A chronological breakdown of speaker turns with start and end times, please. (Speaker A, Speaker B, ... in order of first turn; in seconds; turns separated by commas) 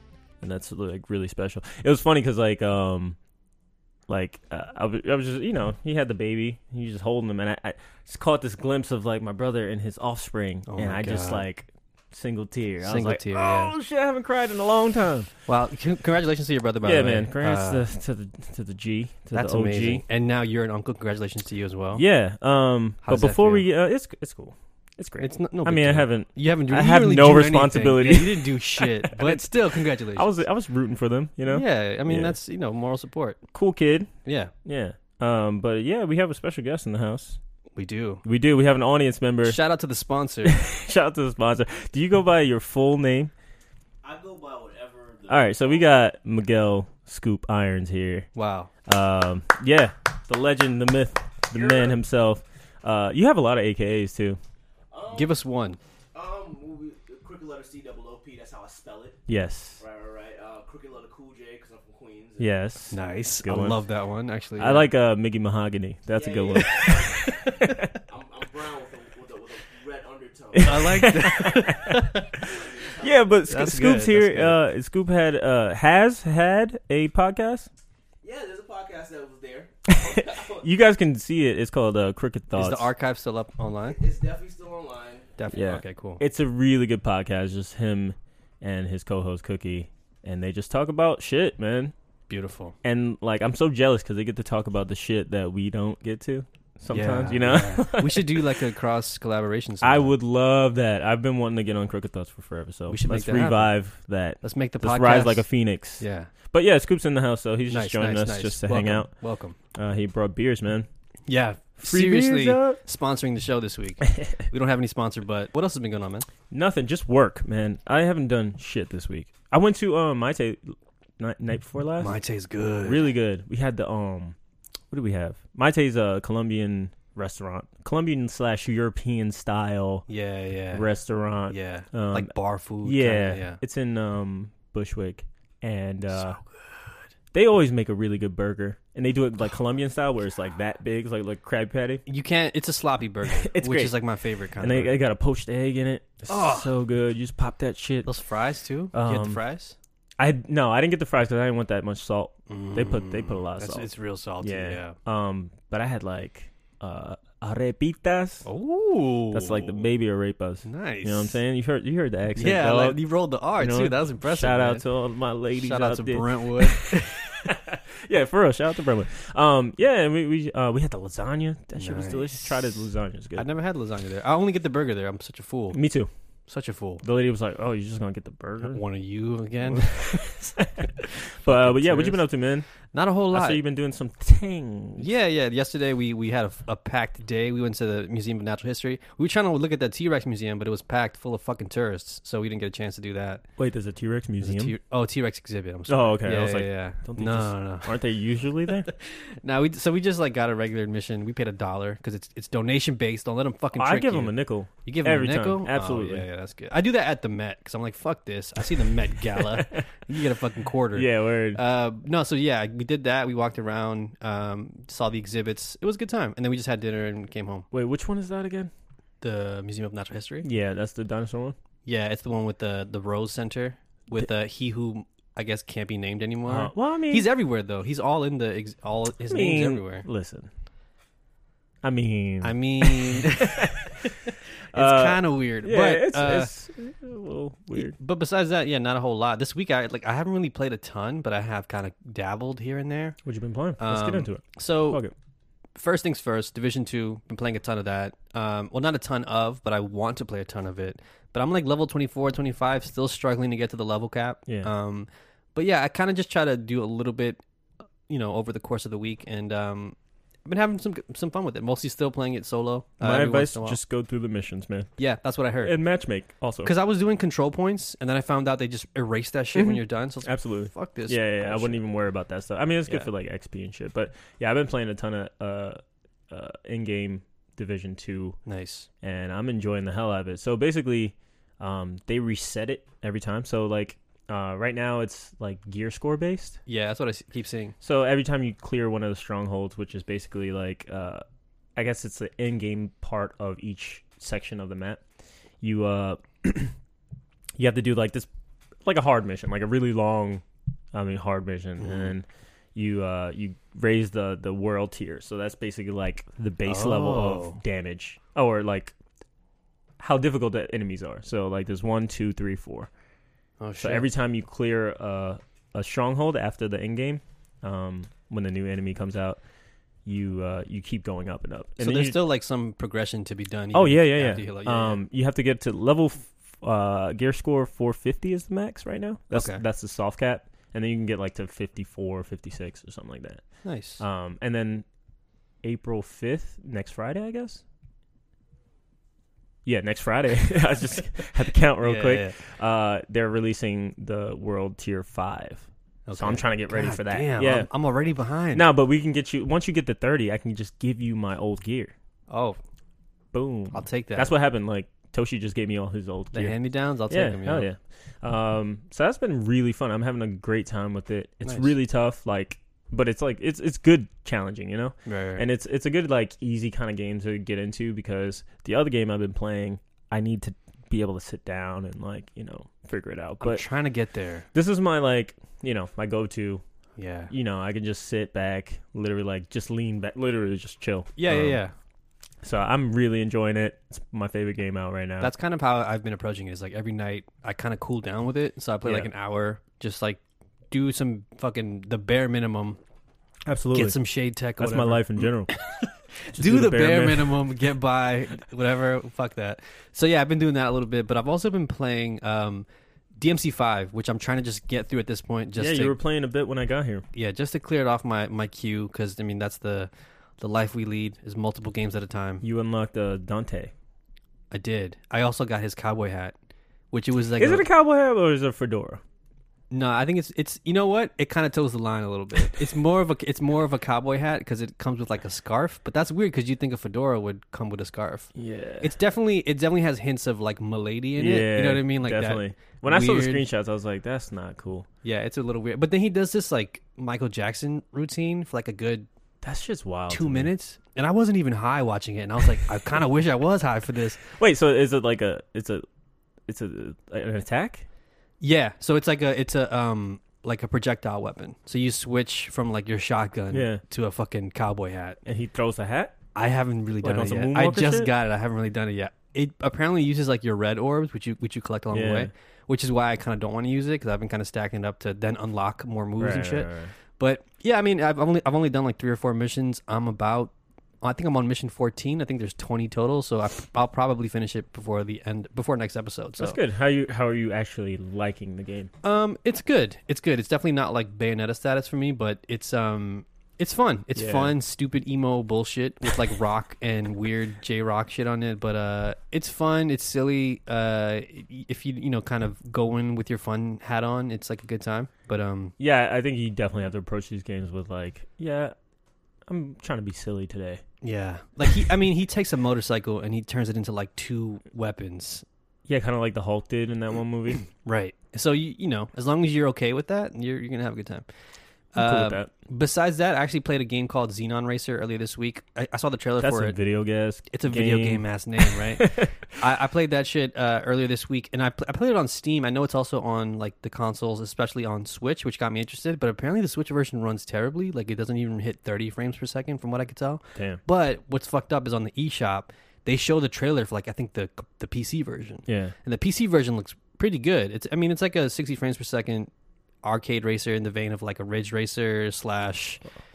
Speaker A: 0.4-3.1, Speaker A: 4.1-15.3, Speaker B: 10.7-11.4, Speaker B: 12.8-13.7, Speaker B: 15.5-17.8, Speaker A: 16.8-20.0, Speaker B: 19.3-22.0, Speaker A: 21.9-32.4, Speaker B: 23.0-23.6, Speaker B: 25.2-30.3, Speaker B: 31.5-33.4, Speaker A: 33.5-34.1, Speaker B: 34.2-34.5, Speaker A: 34.6-37.4, Speaker B: 37.8-38.2, Speaker A: 38.2-39.6, Speaker B: 39.4-40.6, Speaker A: 40.4-43.3, Speaker C: 44.0-45.9, Speaker A: 45.3-48.3, Speaker B: 48.3-48.7, Speaker A: 48.9-54.4, Speaker C: 51.5-52.0, Speaker C: 54.9-55.4, Speaker B: 55.1-55.8, Speaker C: 56.1-59.2, Speaker A: 59.3-59.8, Speaker C: 59.8-62.6, Speaker A: 62.4-63.8, Speaker B: 62.9-64.9, Speaker A: 64.6-67.9, Speaker C: 66.1-71.6, Speaker B: 66.5-67.8, Speaker A: 70.5-77.7, Speaker B: 70.6-72.3, Speaker C: 72.2-73.4, Speaker B: 73.5-74.6, Speaker C: 78.2-80.7, Speaker A: 79.8-82.9, Speaker B: 82.5-84.0, Speaker C: 83.8-85.5, Speaker B: 85.4-86.2, Speaker A: 85.5-91.9, Speaker B: 92.3-92.8, Speaker A: 92.8-98.7, Speaker B: 96.9-100.1, Speaker A: 99.8-109.1, Speaker B: 102.9-103.8, Speaker B: 104.4-105.5, Speaker B: 106.0-106.3, Speaker B: 107.7-109.6, Speaker A: 109.7-110.9, Speaker B: 111.3-116.3, Speaker A: 111.8-112.8, Speaker A: 114.0-114.3, Speaker A: 116.5-122.2, Speaker B: 122.0-123.1, Speaker A: 122.8-124.3, Speaker A: 124.9-130.1, Speaker B: 130.1-130.9, Speaker A: 130.7-136.4, Speaker B: 131.5-133.6, Speaker B: 136.1-137.1, Speaker A: 137.3-142.0, Speaker B: 142.1-144.9, Speaker A: 143.3-143.9, Speaker A: 144.6-148.1, Speaker B: 146.3-146.7, Speaker B: 148.1-149.8, Speaker A: 148.9-149.4, Speaker A: 150.2-153.9, Speaker B: 152.5-154.9, Speaker A: 154.4-158.4, Speaker B: 158.4-159.9, Speaker A: 159.3-163.0, Speaker B: 160.6-161.4, Speaker B: 162.4-164.8, Speaker A: 163.6-173.5, Speaker B: 165.6-167.5, Speaker B: 171.8-172.8, Speaker B: 173.3-175.8, Speaker A: 175.7-176.1, Speaker B: 176.5-177.0, Speaker A: 177.0-178.8, Speaker B: 178.6-180.2, Speaker A: 179.7-182.7, Speaker B: 181.0-182.2, Speaker B: 182.9-183.6, Speaker A: 183.3-185.1, Speaker B: 184.9-193.4, Speaker A: 193.6-194.7, Speaker B: 194.4-197.9, Speaker A: 195.9-198.9, Speaker B: 198.8-217.7, Speaker A: 203.8-206.2, Speaker A: 209.5-209.8, Speaker A: 210.9-211.6, Speaker A: 217.7-218.7, Speaker B: 219.2-220.4, Speaker A: 220.4-221.6, Speaker B: 221.8-230.1, Speaker A: 226.4-227.3, Speaker A: 229.3-230.5, Speaker A: 231.8-234.1, Speaker B: 232.4-236.5, Speaker A: 234.7-238.0, Speaker B: 237.7-243.2, Speaker A: 243.2-245.1, Speaker B: 243.8-245.0, Speaker B: 245.8-257.4, Speaker B: 258.1-263.8, Speaker A: 263.0-264.9, Speaker B: 265.0-265.8, Speaker A: 265.6-266.7, Speaker B: 266.6-271.8, Speaker A: 269.5-278.4, Speaker B: 278.4-278.9, Speaker A: 279.0-286.6, Speaker B: 286.7-287.8, Speaker A: 287.8-291.2, Speaker A: 291.7-295.0, Speaker A: 295.6-296.7, Speaker A: 297.6-298.3, Speaker A: 298.8-308.9, Speaker B: 301.8-302.1, Speaker B: 306.6-307.6, Speaker A: 310.0-312.9, Speaker B: 313.6-314.1, Speaker A: 313.8-319.4, Speaker A: 320.0-322.2, Speaker B: 321.8-325.0, Speaker A: 323.7-333.4, Speaker B: 329.3-329.6, Speaker B: 333.6-334.0, Speaker A: 334.0-334.8, Speaker A: 335.6-337.6, Speaker A: 339.6-347.7, Speaker B: 341.8-342.4, Speaker B: 346.1-348.6, Speaker A: 348.5-351.9, Speaker B: 352.3-352.6, Speaker A: 353.3-356.6, Speaker B: 353.7-354.3, Speaker B: 356.3-357.7, Speaker A: 357.1-373.6, Speaker B: 361.4-361.7, Speaker B: 365.1-365.4, Speaker B: 373.4-374.4, Speaker A: 374.5-376.6, Speaker B: 377.0-377.3, Speaker A: 377.3-381.6, Speaker B: 381.1-381.7, Speaker A: 382.4-385.3, Speaker B: 385.2-392.8, Speaker A: 388.8-389.1, Speaker A: 393.4-394.0, Speaker B: 393.7-402.6, Speaker A: 394.6-395.5, Speaker A: 396.3-397.4, Speaker B: 403.2-405.9, Speaker A: 405.6-407.0, Speaker B: 407.1-412.4, Speaker A: 412.4-413.7, Speaker B: 414.5-416.3, Speaker B: 416.9-417.6, Speaker A: 417.4-419.0, Speaker B: 419.7-428.3, Speaker A: 428.3-428.9, Speaker B: 428.8-433.4, Speaker A: 431.2-434.9, Speaker B: 435.0-439.1, Speaker A: 439.4-440.5, Speaker B: 440.1-444.2, Speaker A: 444.2-445.8, Speaker A: 446.5-447.9, Speaker B: 448.4-455.2, Speaker A: 453.5-453.8, Speaker A: 455.2-456.1, Speaker B: 456.3-476.6, Speaker A: 457.0-458.1, Speaker A: 461.9-462.3, Speaker A: 466.2-466.9, Speaker A: 476.4-478.9, Speaker B: 479.0-495.7, Speaker A: 484.1-484.5, Speaker A: 495.8-498.7, Speaker A: 499.5-500.8, Speaker B: 501.0-505.4, Speaker A: 505.9-507.6, Speaker B: 507.8-511.2, Speaker B: 511.9-516.8, Speaker A: 512.0-512.5, Speaker A: 516.4-519.3, Speaker B: 517.5-539.5, Speaker A: 530.5-530.8, Speaker A: 535.7-535.9, Speaker B: 540.0-543.0